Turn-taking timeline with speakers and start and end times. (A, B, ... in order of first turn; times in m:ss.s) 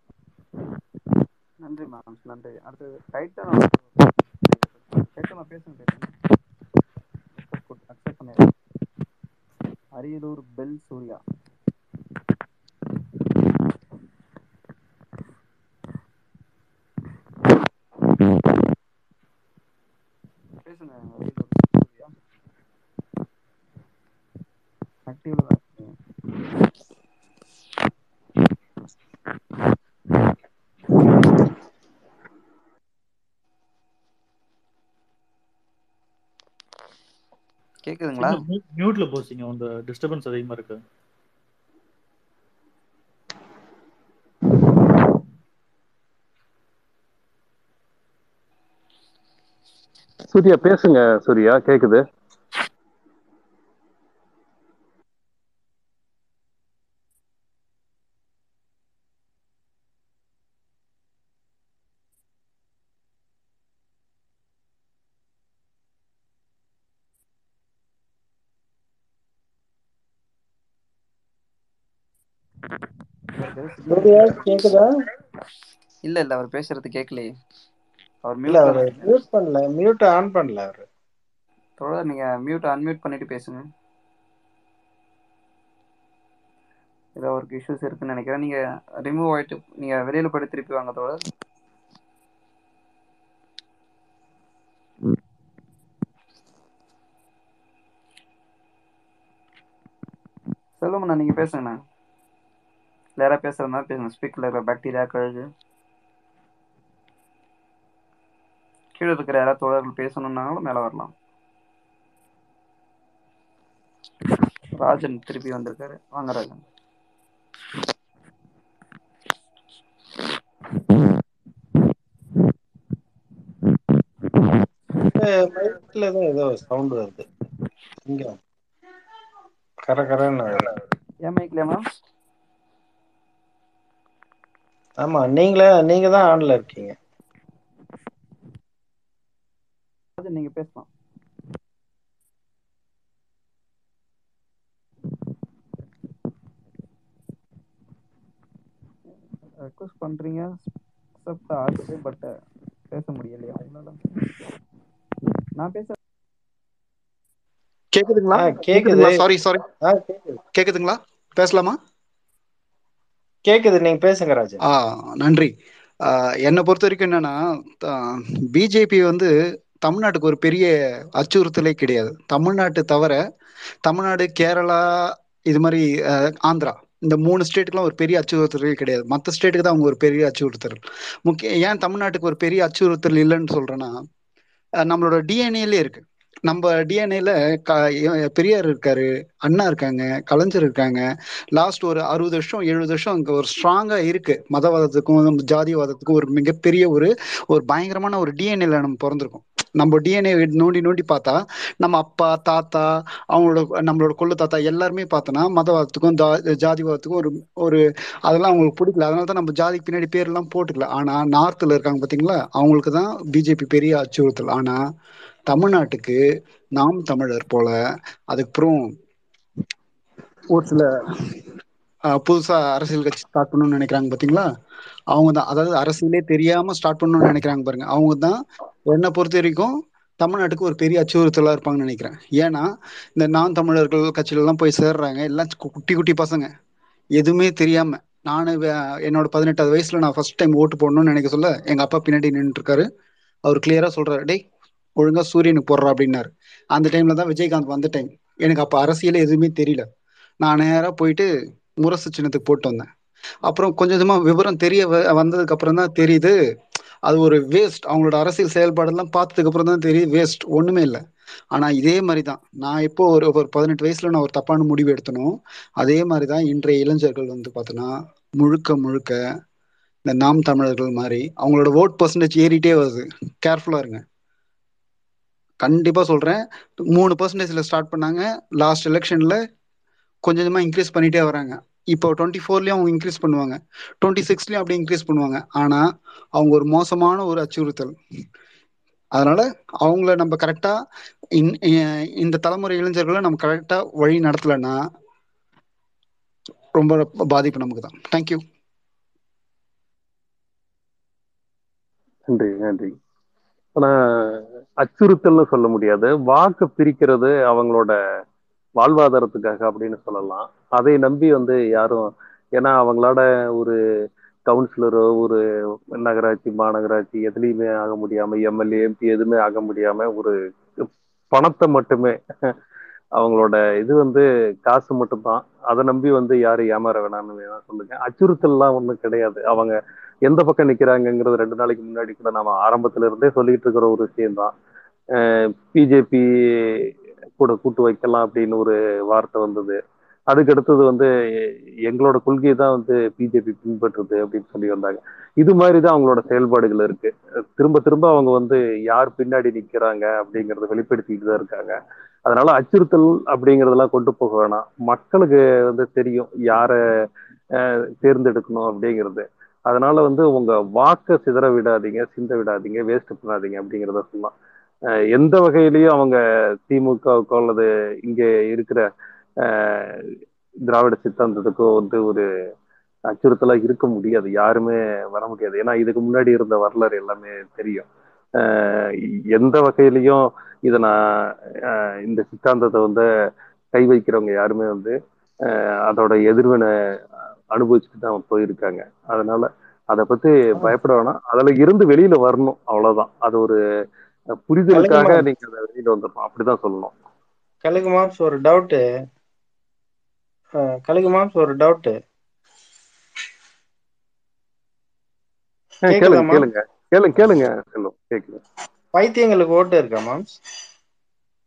0:01.6-0:06.1 A
0:07.5-0:08.5 A
0:10.0-0:11.2 A
0:20.6-0:22.2 A
0:25.1-0:25.9 A
0:37.9-0:38.4 A
0:38.2-0:40.8 B
0:50.3-0:52.0 C
1:13.4-1:14.7 A
1:13.9-1:14.8 D
1:16.0-1:17.3 A
1:18.2-1:19.2 A
1:18.5-1:20.9 D
1:21.8-1:23.6 A
1:27.2-1:31.2 A
1:40.8-1:41.8 A
1:43.2-1:45.5 A
1:49.0-1:51.1 A
1:54.8-1:56.6 A
2:05.2-2:07.3 D
2:08.0-2:08.4 D
2:09.9-2:10.8 D
2:11.2-2:11.8 A
2:15.0-2:17.0 D
2:20.2-2:20.9 A
2:29.6-2:30.6 A
2:31.2-2:32.3 A
2:32.9-2:34.0 A
2:35.6-2:36.0 A
2:37.9-2:39.6 E
2:38.3-2:39.2 D
2:39.8-2:40.4 D
2:40.6-2:41.8 E
2:43.5-2:44.6 D
2:44.6-2:45.5 E
2:46.1-2:49.3 E
2:49.8-2:53.2 E
2:53.9-3:04.0 E
3:04.9-3:11.0 E
3:11.6-3:34.8 E
3:35.5-3:36.2 E
3:36.8-3:37.8 E
3:38.3-3:38.9 E
3:40.5-3:40.9 E
3:42.2-3:44.5 E
3:45.1-3:56.5 E
3:57.2-4:02.9 E
4:03.5-4:04.4 E
4:05.0-4:09.9 E
4:10.4-4:11.3 E
4:11.8-4:12.9 E
4:13.5-4:16.4 E
4:17.1-4:21.0 E
4:21.5-4:29.2 E
4:30.1-4:34.0 E
4:35.6-4:39.4 E
4:40.2-4:45.9 E
4:46.4-4:48.0 E
4:49.2-4:50.8 E
4:51.4-4:54.8 E
4:56.8-4:58.4 E
5:02.3-5:02.9 C
5:03.8-5:08.0 C
5:08.8-5:13.8 C
5:14.5-5:15.4 C
5:16.0-5:20.3 C
5:21.3-5:22.2 C
5:23.2-5:34.5 C
5:35.2-5:39.8 C
5:40.3-5:41.1 C
5:41.9-5:56.8 C
5:57.6-6:04.3 C
6:05.1-6:08.9 C
6:09.4-6:10.0 C
6:10.7-6:12.3 C
6:13.1-6:17.9 C
6:18.4-6:23.1 C
6:23.7-6:26.7 C
6:27.5-6:33.6 C
6:34.4-6:36.9 C
6:34.7-6:35.3 D
6:37.6-6:38.8 D
6:40.9-6:42.0 D
6:45.9-6:46.5 D
6:45.9-6:48.4 C
6:48.9-6:50.3 D